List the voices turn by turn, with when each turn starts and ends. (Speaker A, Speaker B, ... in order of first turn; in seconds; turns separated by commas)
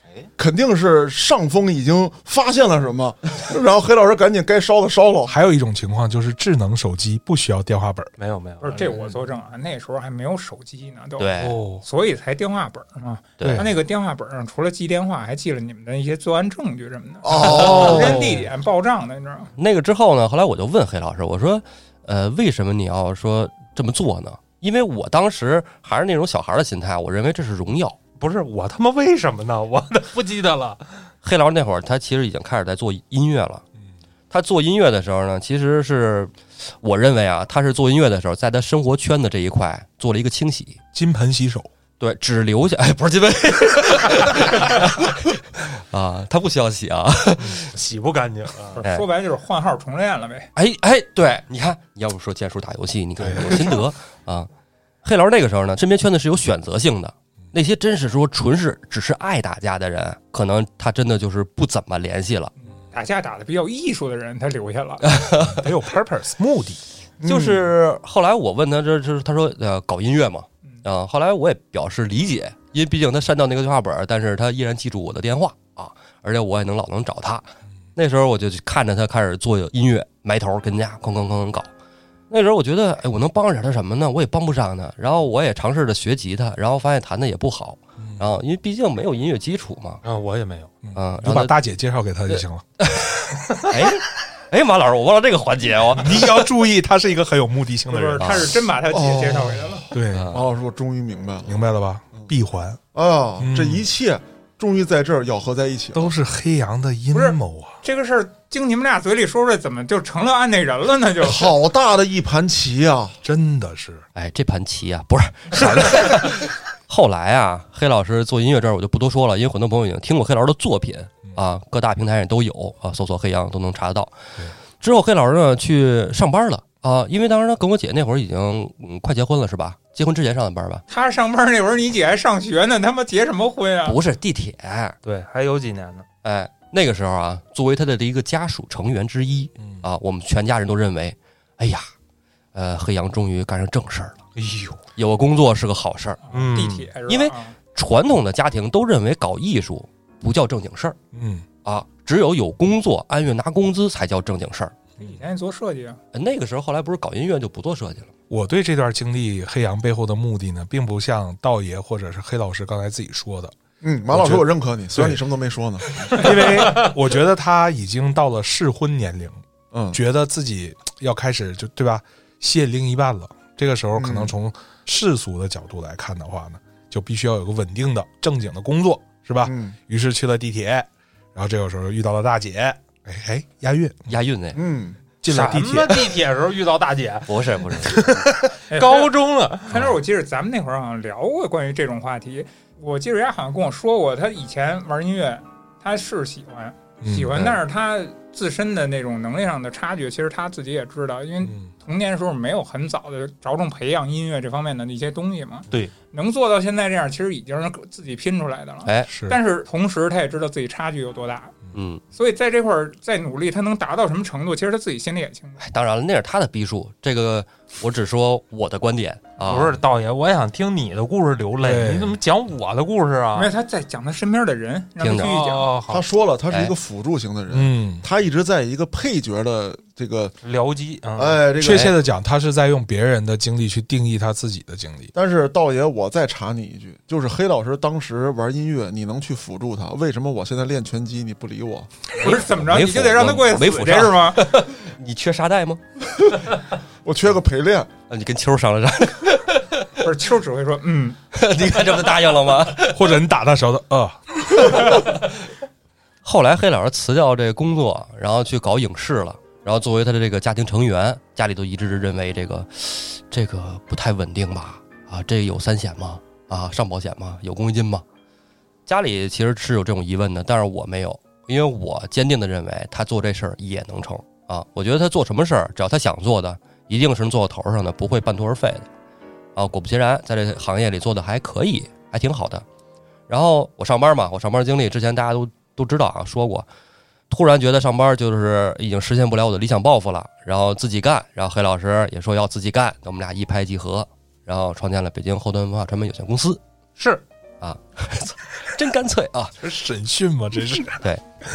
Speaker A: 0.4-5.4, Speaker B: 5.3-8.1, Speaker C: 8.2-9.2, Speaker D: 8.6-19.5, Speaker E: 11.2-11.6, Speaker B: 11.4-11.8, Speaker E: 13.4-13.7, Speaker B: 13.4-13.7, Speaker A: 17.2-18.1, Speaker E: 17.7-18.2, Speaker E: 19.6-28.0, Speaker C: 28.2-30.8, Speaker E: 31.2-33.6, Speaker E: 34.3-40.8, Speaker B: 40.9-41.7, Speaker E: 42.0-47.7, Speaker C: 47.5-48.8, Speaker D: 48.8-50.5, Speaker E: 48.8-49.1, Speaker E: 50.6-54.5, Speaker B: 53.3-53.7, Speaker E: 55.0-62.5, Speaker D: 62.6-65.1, Speaker E: 65.0-65.7, Speaker B: 65.4-66.8, Speaker A: 67.2-67.7, Speaker E: 67.2-81.7, Speaker E: 82.3-90.0, Speaker B: 88.0-88.2, Speaker C: 90.0-90.7, Speaker B: 90.8-92.7, Speaker E: 91.0-91.5, Speaker E: 92.3-96.5, Speaker B: 96.0-98.5, Speaker D: 97.9-99.9, Speaker E: 98.2-98.5, Speaker A: 98.9-101.6, Speaker B: 99.9-100.3, Speaker E: 100.1-100.4, Speaker B: 101.5-102.8, Speaker A: 102.9-106.2, Speaker B: 103.4-103.8, Speaker B: 105.9-107.8, Speaker D: 107.1-111.5, Speaker A: 111.2-113.2, Speaker B: 113.2-114.0, Speaker E: 114.2-124.2, Speaker E: 124.8-130.8, Speaker D: 130.9-134.0, Speaker E: 133.9-135.0, Speaker C: 135.0-136.1, Speaker E: 136.2-141.9, Speaker E: 142.5-144.2, Speaker C: 144.4-144.8, Speaker E: 145.0-146.2, Speaker D: 146.2-147.6, Speaker C: 146.3-146.9, Speaker E: 147.1-151.0, Speaker B: 151.1-151.5, Speaker E: 151.6-154.9, Speaker D: 155.0-156.0, Speaker E: 156.1-158.1, Speaker B: 158.3-163.5, Speaker A: 163.8-166.3, Speaker B: 164.1-165.2, Speaker B: 166.1-169.4, Speaker A: 169.7-170.0, Speaker B: 169.9-184.1, Speaker A: 173.9-174.3, Speaker A: 179.4-179.8, Speaker E: 184.1-184.6, Speaker A: 184.6-185.0, Speaker B: 185.2-186.1, Speaker C: 185.3-187.3, Speaker E: 187.3-188.1, Speaker B: 188.0-188.3, Speaker D: 188.7-189.1, Speaker C: 188.7-189.8, Speaker D: 189.7-211.6, Speaker B: 197.0-197.4, Speaker B: 201.4-201.7, Speaker E: 208.9-209.2, Speaker B: 209.1-209.4, Speaker E: 211.7-212.0, Speaker D: 212.1-215.6, Speaker E: 215.6-219.8, Speaker C: 219.4-223.5, Speaker B: 221.6-222.2, Speaker D: 223.3-225.8, Speaker E: 225.0-225.3, Speaker C: 225.1-226.1, Speaker A: 225.9-230.3, Speaker B: 227.5-228.1, Speaker C: 230.4-231.4, Speaker A: 231.2-231.9, Speaker B: 231.6-235.1, Speaker A: 235.1-241.9, Speaker D: 242.2-244.4, Speaker E: 242.2-245.8, Speaker A: 247.0-247.9, Speaker E: 248.1-249.9, Speaker D: 250.0-251.2, Speaker E: 251.3-253.1, Speaker B: 252.8-255.0, Speaker E: 254.7-255.1, Speaker E: 256.2-268.0, Speaker E: 268.9-278.9, Speaker E: 279.6-282.6, Speaker E: 283.3-286.7, Speaker E: 287.3-296.6, Speaker C: 297.0-297.2, Speaker E: 297.6-299.5, Speaker B: 299.6-301.0